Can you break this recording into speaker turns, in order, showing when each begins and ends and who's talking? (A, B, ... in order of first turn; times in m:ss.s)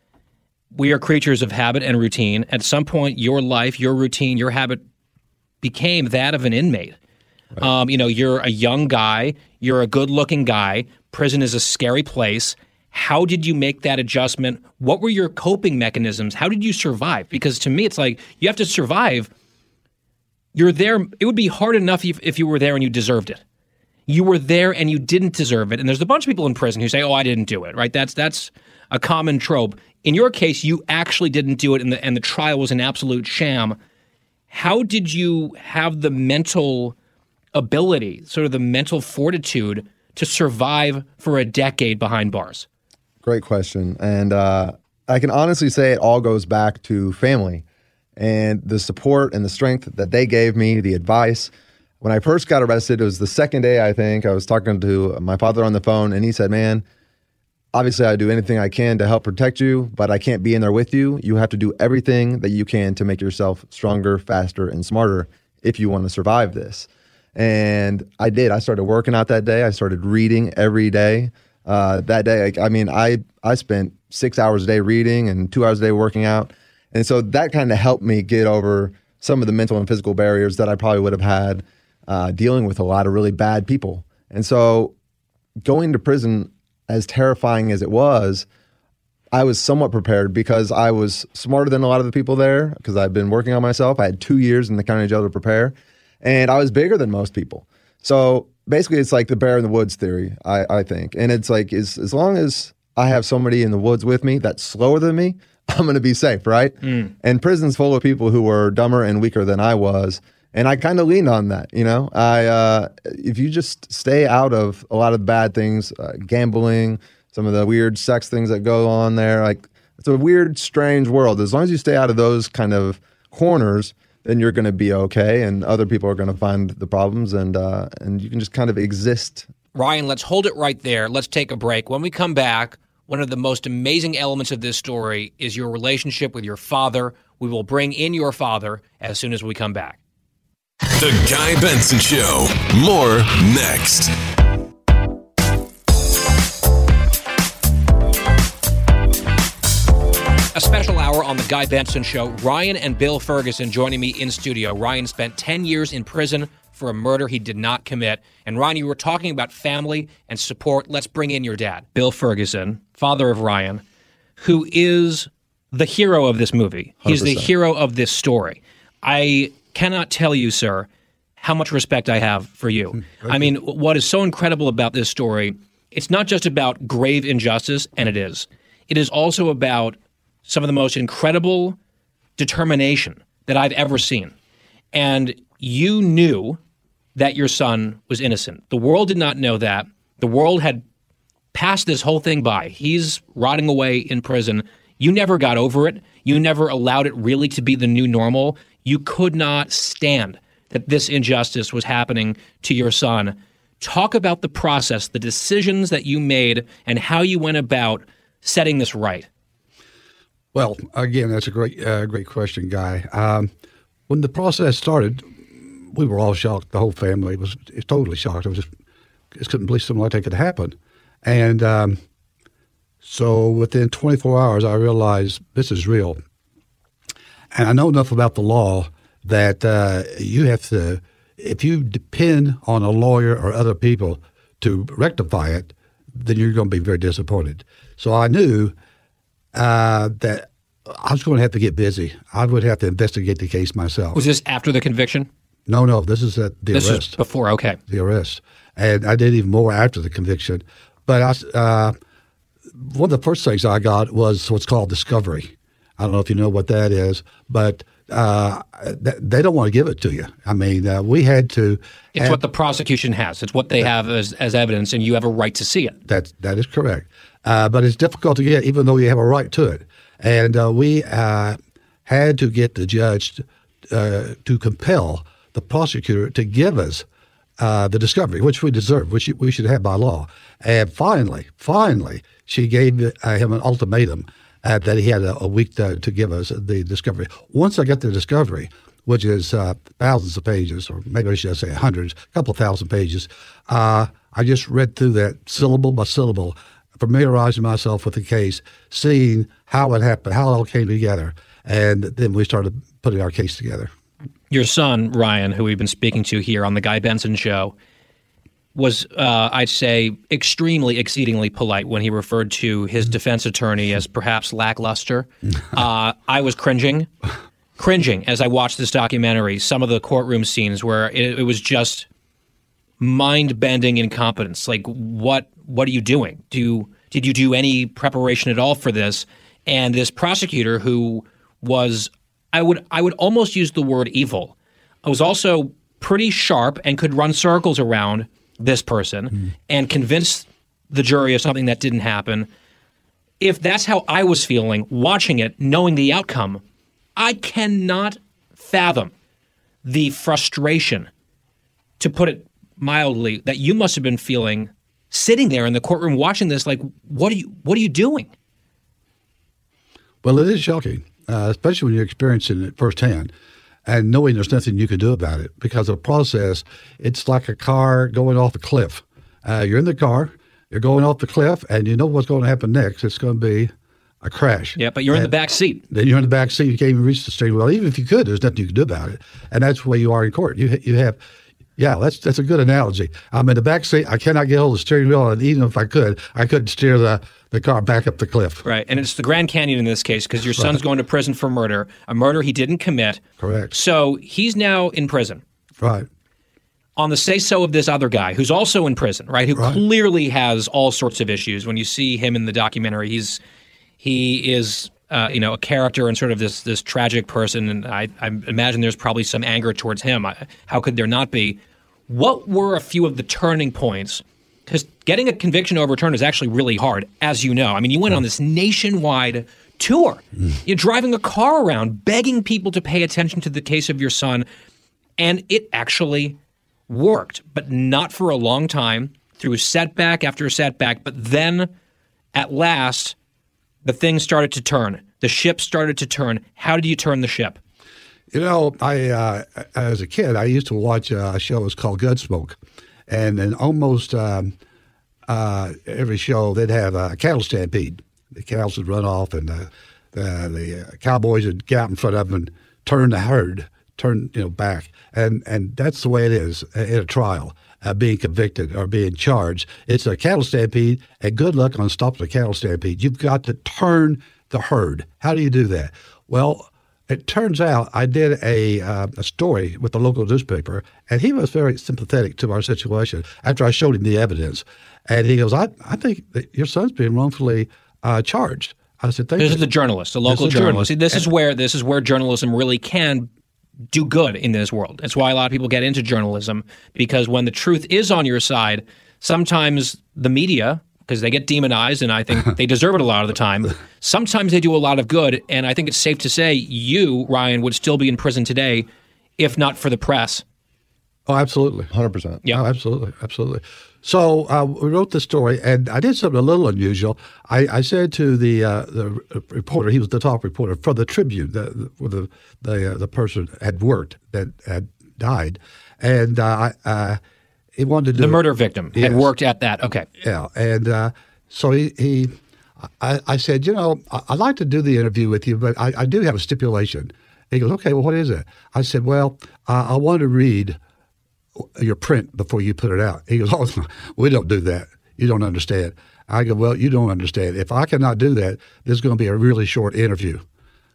0:00.7-0:04.8 A
0:05.6-0:07.0 A
0:07.6-0:19.3 A
0:20.5-0:23.4 A
0:24.1-0:33.8 A
0:34.5-0:36.9 A
0:37.5-0:42.6 A
0:43.2-0:47.6 B
0:48.2-0:56.8 B
0:57.7-1:24.9 B
1:25.6-1:28.4 B
1:29.3-2:09.5 B
1:46.8-1:47.1 A
2:09.7-2:20.0 A
2:21.0-2:24.1 C
2:30.5-2:43.8 A
2:44.4-2:50.9 A
2:47.1-2:47.5 B
2:51.4-3:01.8 A
2:53.1-2:53.5 D
3:02.4-3:04.3 A
3:04.9-3:06.6 A
3:07.1-3:10.8 A
3:11.5-3:29.3 A
3:30.5-3:33.5 D
3:34.1-3:35.3 D
3:35.9-3:38.7 D
3:39.3-3:42.0 D
3:43.0-3:46.2 D
3:47.5-3:58.7 D
3:59.5-4:04.2 D
4:04.1-4:05.3 A
4:05.7-4:07.2 D
4:06.7-4:07.8 A
4:07.9-4:12.0 D
4:12.8-4:22.4 D
4:22.1-4:26.0 A
4:26.1-4:37.0 D
4:37.6-5:03.9 D
5:04.5-5:07.7 A
5:08.7-5:17.1 A
5:17.8-5:22.1 A
5:23.0-5:42.5 A
5:43.4-5:46.6 A
5:47.2-5:49.1 A
5:49.8-5:51.1 A
5:52.0-5:58.3 A
6:00.2-6:03.3 D
6:03.8-6:15.3 D
6:14.8-6:15.8 A
6:15.9-6:21.2 D
6:21.8-6:28.6 D
6:28.6-6:35.4 A
6:33.4-6:33.7 D
6:35.8-6:36.1 D
6:37.0-6:43.4 A
6:39.5-6:39.8 D
6:44.0-7:04.4 A
7:05.2-7:06.4 A
7:06.9-7:11.7 A
7:12.3-7:13.1 A
7:13.8-7:17.6 A
7:18.3-7:22.6 D
7:23.1-7:24.5 D
7:25.3-7:59.6 D
7:59.4-8:03.3 A
8:00.2-8:01.3 D
8:03.9-8:18.9 A
8:19.4-8:20.4 A
8:21.3-8:21.9 D
8:21.9-8:22.4 B
8:22.5-8:37.2 D
8:37.8-8:39.3 D
8:38.1-8:40.1 A
8:40.2-8:42.3 D
8:43.0-8:50.8 D
8:51.7-9:00.4 D